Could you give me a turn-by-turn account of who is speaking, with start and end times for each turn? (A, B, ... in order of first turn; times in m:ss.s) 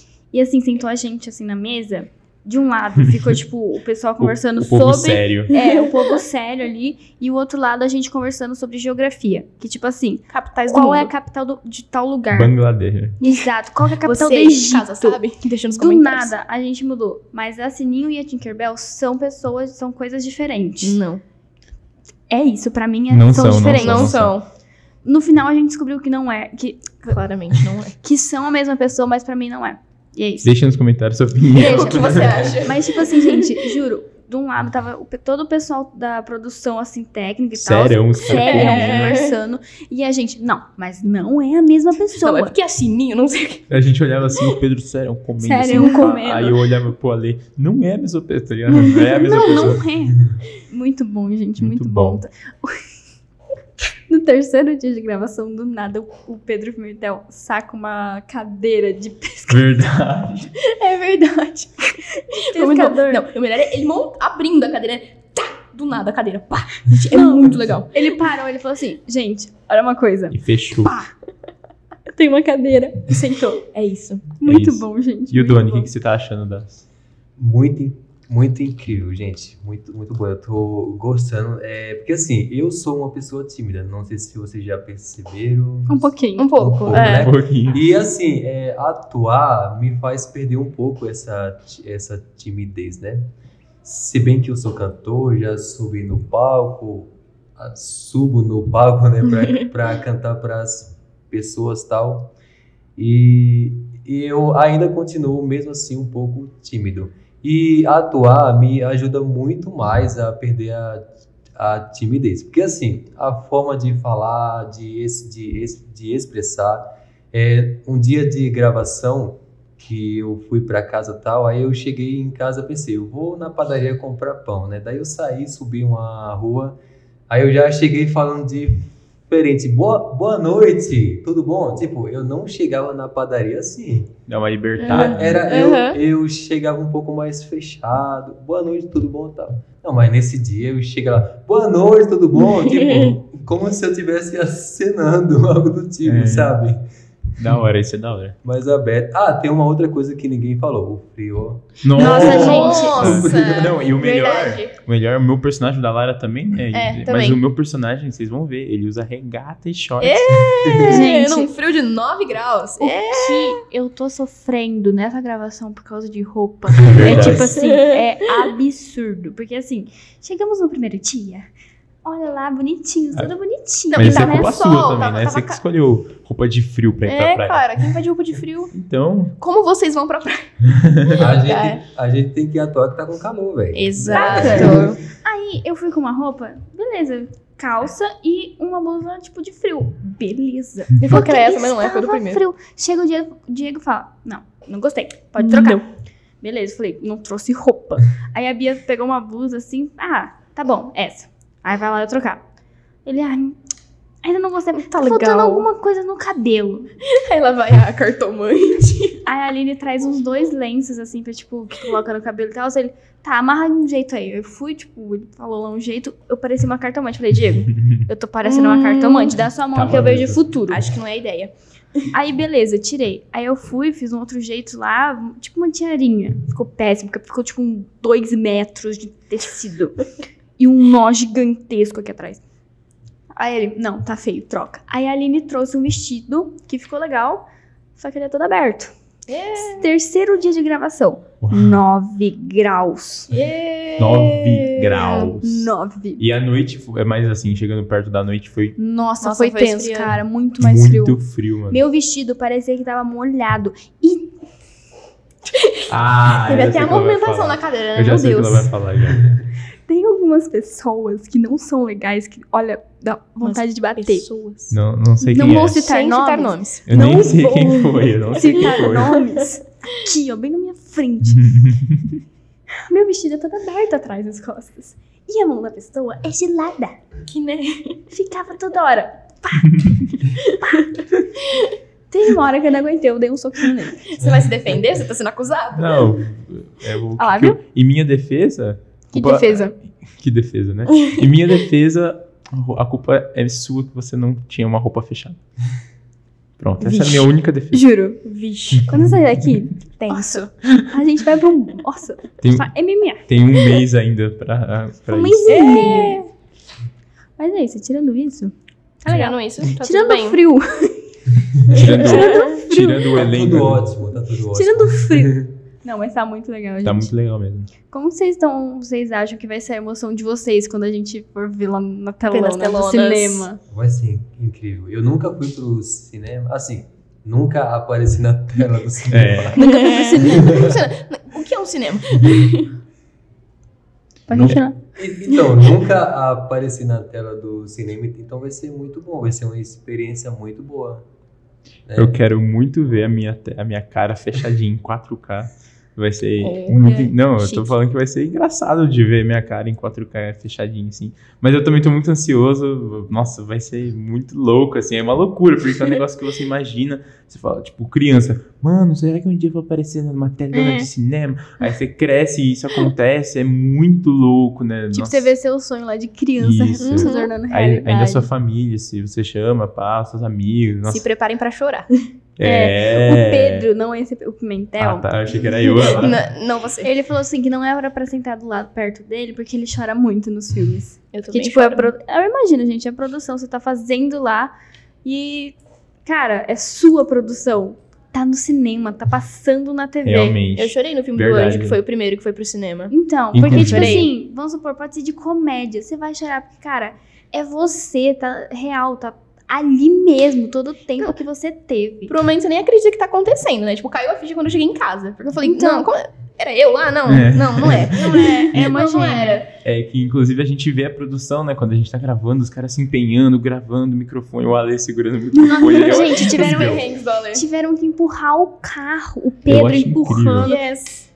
0:00.3-0:12.5 A
0:04.2-0:05.5 B
0:05.5-0:06.1 C
0:10.3-0:11.1 C
0:12.3-0:13.2 B
0:13.2-0:15.2 A
0:14.0-0:16.3 C
0:15.8-0:21.0 A
0:20.8-0:21.2 C
0:22.3-0:24.2 A
0:23.1-0:24.3 B
0:23.8-0:24.5 C
0:25.0-0:27.2 A
0:27.1-0:27.9 C
0:28.0-0:30.5 A
0:30.4-0:32.6 B
0:31.5-0:33.2 C
0:31.5-0:42.5 A
0:37.5-0:39.0 B
0:38.2-0:39.4 C
0:42.2-0:43.6 C
0:43.7-0:49.9 B
0:45.4-0:46.6 A
0:49.2-0:52.8 A
0:51.6-0:52.2 B
0:54.1-0:59.7 A
0:59.5-1:00.5 B
1:00.6-1:08.0 C
1:01.9-1:03.2 A
1:07.1-1:11.0 A
1:10.3-1:10.9 B
1:12.1-1:13.6 A
1:13.7-1:14.3 C
1:14.4-1:15.9 A
1:14.4-1:16.8 B
1:17.4-1:33.3 D
1:25.9-1:26.5 A
1:26.4-1:27.3 C
1:26.9-1:27.8 B
1:33.8-1:42.3 D
1:39.4-1:39.7 C
1:43.0-2:06.8 D
2:07.3-2:14.1 D
2:14.3-2:15.4 B
2:14.8-2:16.0 C
2:14.8-2:26.8 D
2:22.4-2:23.1 C
2:26.0-2:26.5 B
2:27.4-2:28.4 B
2:28.4-2:33.6 D
2:31.8-2:40.6 B
2:31.9-2:33.2 A
2:32.0-2:34.7 C
2:36.7-2:37.4 C
2:40.0-2:43.6 C
2:40.9-2:41.5 A
2:42.8-2:51.5 A
2:46.8-2:47.5 B
2:47.0-2:47.9 C
2:52.0-2:54.6 A
2:53.9-2:55.6 C
2:53.9-2:57.7 B
2:57.1-2:58.7 C
2:58.7-2:59.3 B
2:59.4-3:01.8 C
3:00.7-3:01.2 B
3:01.2-3:05.0 D
3:03.7-3:05.0 C
3:04.1-3:15.8 A
3:11.0-3:12.4 C
3:15.4-3:15.8 C
3:16.4-3:22.4 A
3:23.0-3:23.6 A
3:24.2-3:26.9 A
3:24.8-3:25.7 C
3:27.0-3:29.2 C
3:29.2-3:40.9 A
3:38.4-3:39.4 C
3:39.7-3:40.4 B
3:40.7-3:42.1 C
3:42.1-3:52.4 A
3:53.3-3:57.4 A
3:58.0-3:58.9 A
3:59.3-3:59.9 C
3:59.6-4:03.3 A
4:01.4-4:01.8 B
4:03.3-4:05.3 C
4:04.0-4:08.8 B
4:05.4-4:06.2 A
4:08.8-4:14.3 A
4:09.2-4:10.2 C
4:10.6-4:11.8 B
4:15.5-4:18.7 C
4:15.9-4:19.3 B
4:19.2-4:19.4 D
4:19.9-4:24.7 A
4:23.4-4:24.6 C
4:24.7-4:25.8 B
4:25.2-4:31.5 A
4:25.4-4:26.9 C
4:26.9-4:29.2 B
4:28.5-4:29.1 C
4:31.2-4:32.1 B
4:32.7-4:37.0 A
4:37.3-4:38.0 C
4:38.1-4:40.8 A
4:41.5-4:41.8 C
4:42.1-4:44.2 A
4:44.1-4:46.2 C
4:44.2-4:44.5 D
4:45.8-4:55.4 B
4:47.2-4:47.6 A
4:49.1-4:49.7 A
4:56.6-4:57.9 B
4:56.8-5:03.2 A
4:58.2-4:58.9 C
4:58.7-4:59.4 B
5:00.0-5:00.5 C
5:02.4-5:06.0 B
5:05.1-5:06.2 A
5:05.5-5:06.3 C
5:07.4-5:08.5 A
5:09.0-5:10.4 C
5:09.0-5:11.1 A
5:11.7-5:13.9 B
5:11.7-5:13.1 A
5:12.0-5:12.6 C
5:13.1-5:15.5 D
5:14.5-5:17.1 A
5:16.8-5:17.7 B
5:17.9-5:23.6 A
5:22.3-5:23.5 C
5:23.7-5:29.6 D
5:29.1-5:29.6 B
5:29.6-5:30.7 A
5:29.6-5:32.7 C
5:30.3-5:30.8 D
5:34.3-5:34.8 A
5:34.3-5:34.6 B
5:34.9-5:41.0 D
5:41.9-5:42.1 D
5:42.0-6:05.3 B
5:46.4-5:47.1 C
5:47.4-5:47.7 A
6:00.5-6:00.9 A
6:04.9-6:08.3 A
6:06.4-6:11.0 B
6:06.8-6:07.3 C
6:10.9-6:12.1 C
6:12.4-6:13.7 B
6:12.4-6:16.0 A
6:14.8-6:16.2 B
6:15.7-6:16.9 C
6:16.8-6:24.5 A
6:21.1-6:21.9 C
6:25.0-6:30.4 A
6:30.0-6:31.8 B
6:30.5-6:34.1 C
6:32.9-6:42.2 A
6:33.3-6:34.0 B
6:42.1-6:49.5 C
6:45.4-6:45.9 A
6:47.1-6:48.6 B
6:47.8-6:49.4 A
6:49.6-6:56.8 B
6:55.3-7:00.6 A
6:55.6-6:57.4 C
6:59.5-7:00.5 B
7:00.4-7:01.1 C